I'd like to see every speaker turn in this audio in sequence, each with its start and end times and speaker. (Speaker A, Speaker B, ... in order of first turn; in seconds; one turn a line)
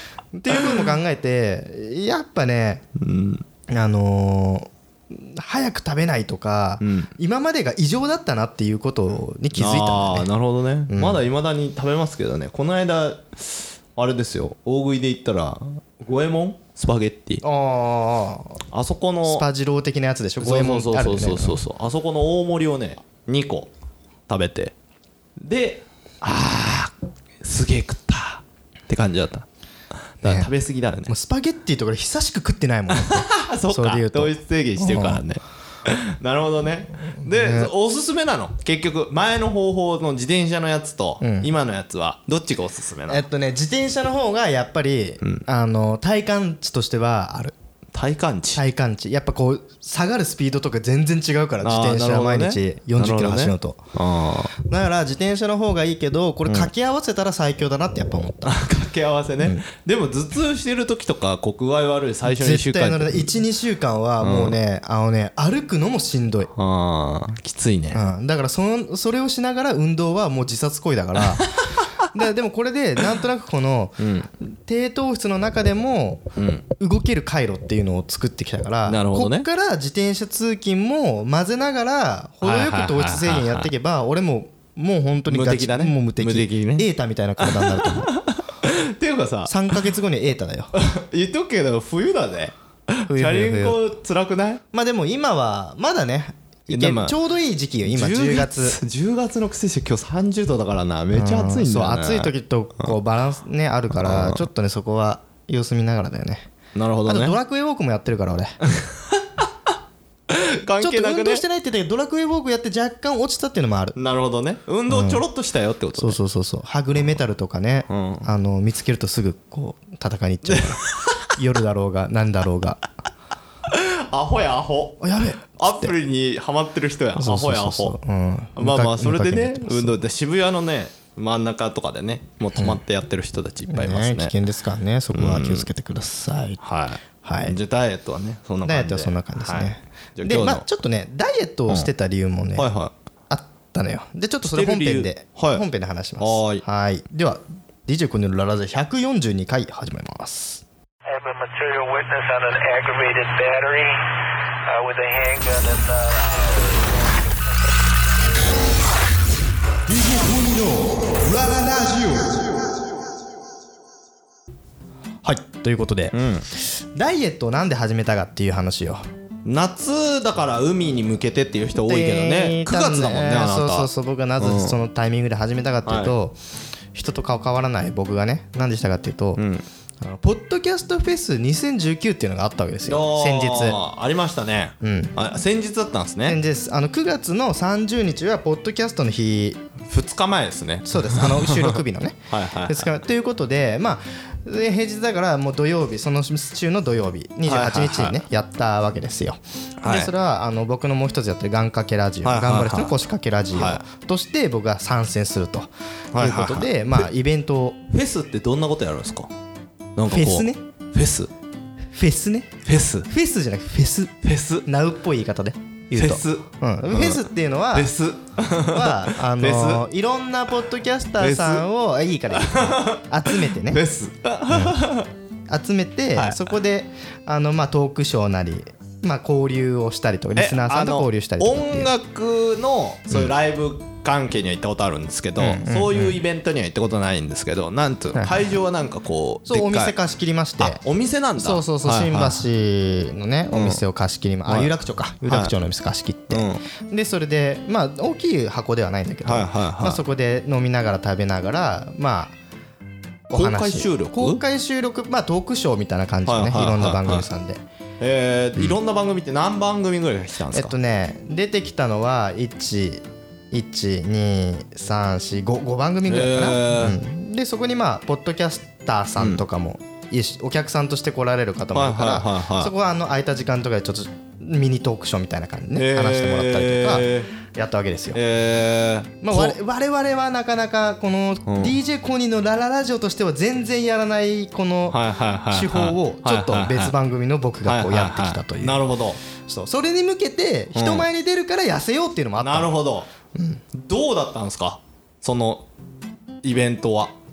Speaker A: 0.3-2.8
Speaker B: 3.0-3.4
Speaker A: 3.7-10.3
Speaker B: 6.8-7.1
Speaker B: 9.6-17.4
Speaker A: 10.9-11.2
Speaker A: 17.4-18.6
Speaker B: 18.7-19.4
Speaker A: 19.3-21.6
Speaker B: 20.4-23.7
Speaker B: 24.3-24.7
Speaker B: 25.4-29.5
Speaker B: 30.2-31.1
Speaker A: 30.2-30.5
Speaker A: 31.1-35.2
Speaker B: 32.9-43.2
Speaker A: 37.2-37.7
Speaker A: 41.2-41.5
Speaker A: 43.1-47.5
Speaker B: 47.9-48.6
Speaker A: 48.6-53.8
Speaker B: 51.6-54.5
Speaker A: 54.6-58.6
Speaker B: 58.5-63.3
Speaker A: 62.3-66.5
Speaker B: 64.2-64.6
Speaker B: 66.5-68.0
Speaker A: 67.9-71.5
Speaker B: 71.2-71.7
Speaker A: 72.0-76.2
Speaker B: 74.0-74.3
Speaker B: 76.4-76.7
Speaker A: 76.8-88.2
Speaker B: 78.9-79.5
Speaker B: 82.4-83.7
Speaker B: 85.3-86.9
Speaker B: 87.4-89.8
Speaker A: 89.5-90.7
Speaker B: 90.8-94.6
Speaker A: 93.1-93.8
Speaker A: 94.7-98.8
Speaker B: 96.7-97.2
Speaker B: 97.8-102.9
Speaker A: 101.1-106.5
Speaker B: 103.9-104.4
Speaker B: 106.7-107.4
Speaker A: 107.1-108.5
Speaker B: 108.7-109.4
Speaker B: 110.3-111.5
Speaker A: 110.8-114.0
Speaker B: 114.0-116.2
Speaker A: 114.9-115.2
Speaker A: 116.0-122.8
Speaker B: 117.9-118.3
Speaker B: 120.5-121.2
Speaker B: 123.7-128.0
Speaker A: 125.0-125.9
Speaker A: 127.2-130.0
Speaker B: 128.6-134.3
Speaker A: 133.7-136.6
Speaker B: 135.1-135.7
Speaker B: 136.6-140.7
Speaker A: 137.2-137.6
Speaker A: 138.7-142.7
Speaker B: 142.6-142.9
Speaker A: 143.3-150.6
Speaker B: 144.5-145.6
Speaker B: 146.2-146.6
Speaker C: 151.1-154.1
Speaker C: 154.7-156.7
Speaker A: 159.9-162.5
Speaker A: 165.2-169.0
Speaker B: 166.1-166.5
Speaker B: 169.4-174.8
Speaker A: 171.8-176.4
Speaker B: 175.8-176.1
Speaker A: 176.9-179.4
Speaker B: 179.4-179.6
Speaker A: 180.0-183.8
Speaker B: 182.8-186.4
Speaker A: 184.8-185.2
Speaker A: 186.2-189.6
Speaker B: 189.9-192.9
Speaker A: 190.9-207.8
Speaker B: 197.5-198.2
Speaker B: 199.8-200.1
Speaker B: 202.2-203.0
Speaker B: 203.5-203.8
Speaker B: 206.1-207.1
Speaker B: 207.9-209.3
Speaker B: 210.0-211.3
Speaker A: 210.1-210.6
Speaker A: 211.9-217.9
Speaker B: 212.7-213.1
Speaker B: 214.2-214.7
Speaker B: 215.9-217.2
Speaker B: 217.7-219.9
Speaker A: 218.7-223.8
Speaker B: 221.2-221.7
Speaker B: 222.3-225.1
Speaker A: 224.5-224.8
Speaker A: 225.5-231.9
Speaker B: 226.2-226.4
Speaker B: 230.4-239.9
Speaker A: 235.4-236.2
Speaker A: 238.2-238.5
Speaker A: 239.5-240.8
Speaker B: 240.6-242.4
Speaker A: 241.4-252.3
Speaker B: 243.5-243.8
Speaker B: 244.5-244.7
Speaker B: 245.3-245.5
Speaker B: 246.3-246.6
Speaker B: 249.2-250.0
Speaker B: 253.3-254.4
Speaker A: 253.3-257.6
Speaker B: 256.2-257.3
Speaker B: 258.0-260.8
Speaker A: 260.5-278.2
Speaker B: 266.1-267.0
Speaker B: 269.2-269.4
Speaker B: 271.7-272.7
Speaker B: 275.7-277.3
Speaker B: 278.1-279.6
Speaker A: 279.2-285.0
Speaker B: 281.5-281.8
Speaker B: 284.9-286.9
Speaker A: 285.5-288.8
Speaker B: 287.6-289.2
Speaker A: 289.5-292.7
Speaker B: 290.8-291.1
Speaker B: 292.4-293.1
Speaker A: 293.3-293.6
Speaker B: 293.7-295.6
Speaker B: 296.4-297.1